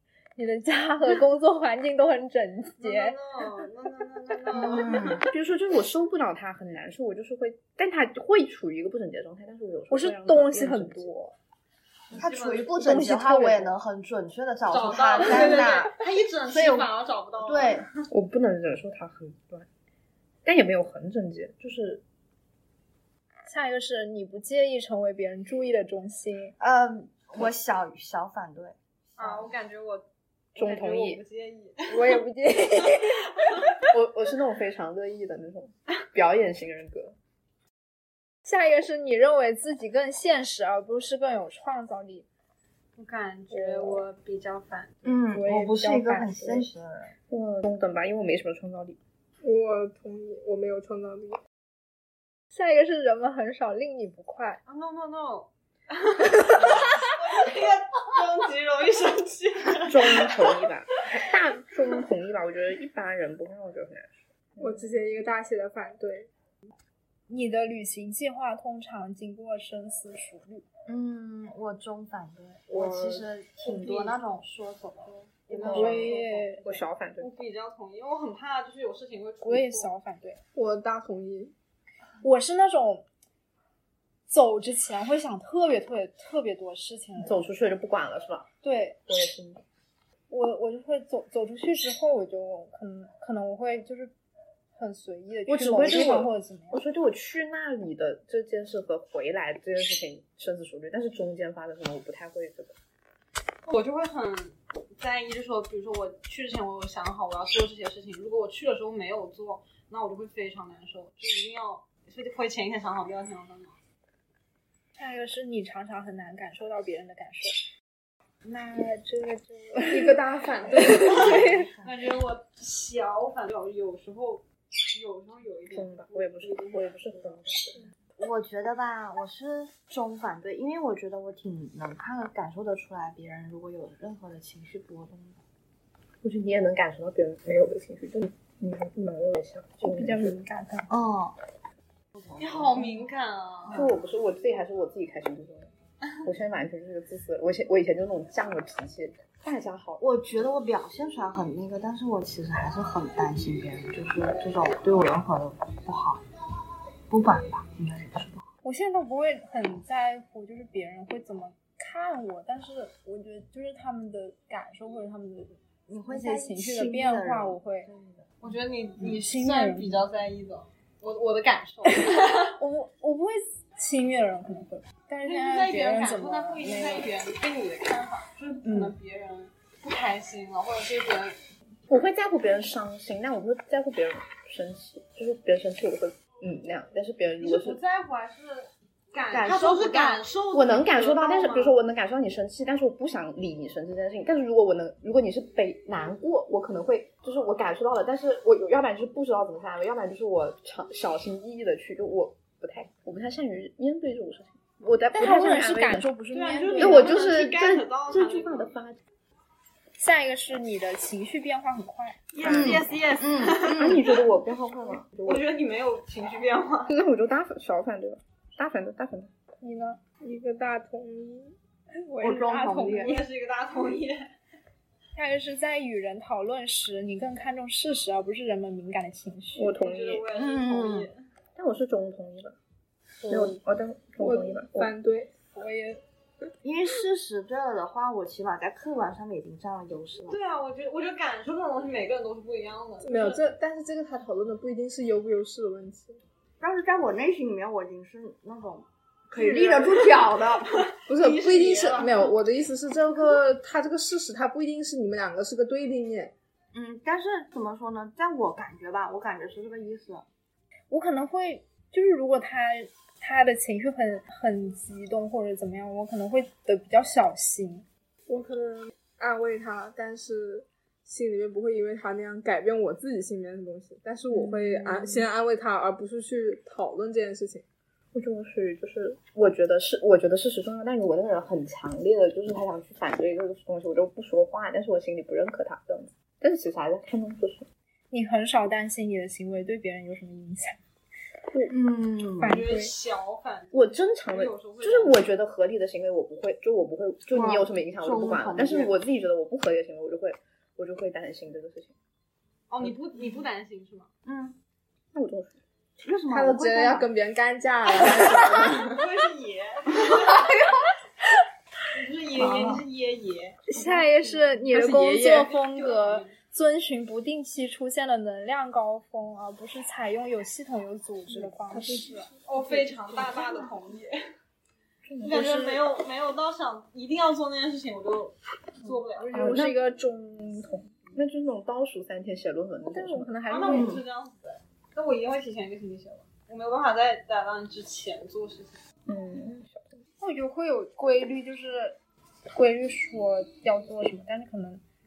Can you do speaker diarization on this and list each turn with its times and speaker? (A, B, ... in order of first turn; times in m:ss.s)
0:00.4-0:03.2 A
0:02.8-0:05.2 B
0:04.6-0:05.3 C
0:05.2-0:11.1 D
0:09.9-0:11.4 A
0:12.2-0:12.8 B
0:12.2-0:17.9 C
0:12.8-0:13.8 A
0:14.7-0:17.8 B
0:18.1-0:19.7 D
0:20.4-0:22.0 D
0:23.5-0:26.6 A
0:26.6-0:29.5 C
0:29.2-0:32.2 B
0:30.6-0:31.2 D
0:31.9-0:33.3 A
0:33.9-0:37.2 D
0:38.4-0:42.3 A
0:43.0-0:45.0 B
0:43.5-0:44.0 D
0:45.0-0:47.2 C
0:45.3-0:46.7 A
0:47.3-0:49.0 D
0:49.4-0:51.4 E
0:52.5-0:54.6 A
0:54.7-1:00.6 B
0:59.8-1:04.7 D
1:04.6-1:06.3 E
1:07.3-1:10.6 A
1:10.9-1:16.4 C
1:12.7-1:13.3 E
1:15.5-1:16.2 B
1:15.6-1:17.3 D
1:15.7-1:16.7 A
1:17.2-1:19.9 B
1:19.4-1:20.4 A
1:20.6-1:21.5 E
1:22.2-1:23.1 A
1:24.3-1:27.5 A
1:27.2-1:28.5 D
1:28.6-1:29.0 A
1:29.1-1:29.6 D
1:30.3-1:34.1 A
1:34.8-1:36.8 A
1:35.5-1:42.8 D
1:43.7-1:53.8 B
1:55.0-1:57.6 A
1:58.4-2:01.7 A
1:59.8-2:01.3 E
2:00.7-2:02.2 C
2:01.1-2:07.6 B
2:05.7-2:07.9 D
2:08.2-2:15.4 C
2:16.2-2:20.4 D
2:19.8-2:20.9 A
2:20.9-2:21.4 C
2:22.2-2:23.1 C
2:22.4-2:23.8 B
2:23.7-2:24.0 C
2:23.7-2:25.7 D
2:26.2-2:30.0 D
2:30.0-2:36.2 C
2:37.1-2:38.4 C
2:38.6-2:47.9 A
2:45.9-2:48.3 C
2:48.4-2:52.5 B
2:49.0-2:50.0 A
2:52.2-2:57.1 A
2:55.3-3:01.4 B
2:58.6-2:59.0 A
3:01.9-3:07.8 D
3:07.4-3:11.8 B
3:09.3-3:10.3 C
3:10.5-3:26.1 D
3:25.1-3:27.2 A
3:26.3-3:28.8 B
3:26.8-3:29.0 D
3:30.0-3:32.2 A
3:32.3-3:34.2 B
3:32.4-3:32.9 D
3:32.4-3:34.0 C
3:33.6-3:35.4 D
3:35.2-3:36.9 B
3:36.9-3:39.3 D
3:39.6-3:40.0 A
3:40.2-3:41.5 E
3:42.0-3:43.2 A
3:42.2-3:43.2 C
3:43.0-3:44.3 B
3:45.2-3:49.8 A
3:49.6-3:50.3 D
3:49.8-3:51.2 B
3:50.3-3:51.1 C
3:51.6-3:52.6 D
3:53.2-3:53.6 A
3:53.3-3:54.9 D
3:54.2-3:55.3 E
3:55.5-3:56.0 A
3:56.6-4:00.4 C
4:00.3-4:03.4 B
4:03.0-4:06.2 E
4:06.6-4:10.9 C
4:09.5-4:09.8 E
4:09.8-4:10.3 B
4:10.9-4:12.3 B
4:11.1-4:16.3 E
4:16.7-4:20.3 C
4:20.9-4:27.9 A
4:28.3-4:37.6 E
4:34.3-4:35.1 A
4:38.1-4:47.7 D
4:48.1-4:50.8 A
4:51.7-4:52.6 C
4:52.4-4:52.9 A
4:52.4-4:55.2 B
4:53.7-5:02.0 D
4:57.3-4:59.0 C
5:02.7-5:04.1 B
5:04.2-5:04.6 C
5:05.1-5:05.6 D
5:06.0-5:07.1 C
5:06.3-5:09.0 E
5:08.6-5:10.5 B
5:11.9-5:13.6 B
5:12.4-5:12.8 C
5:13.7-5:22.3 A
5:13.8-5:14.5 C
5:14.7-5:15.5 E
5:15.5-5:16.4 B
5:21.3-5:22.3 D
5:22.4-5:24.2 B
5:25.0-5:25.7 D
5:25.2-5:25.8 A
5:25.2-5:29.6 B
5:28.9-5:30.8 A
5:29.3-5:30.0 D
5:30.5-5:33.3 D
5:32.9-5:33.9 A
5:33.5-5:38.8 B
5:33.7-5:34.0 C
5:39.1-5:40.0 D
5:40.2-5:42.0 A
5:42.5-5:44.8 A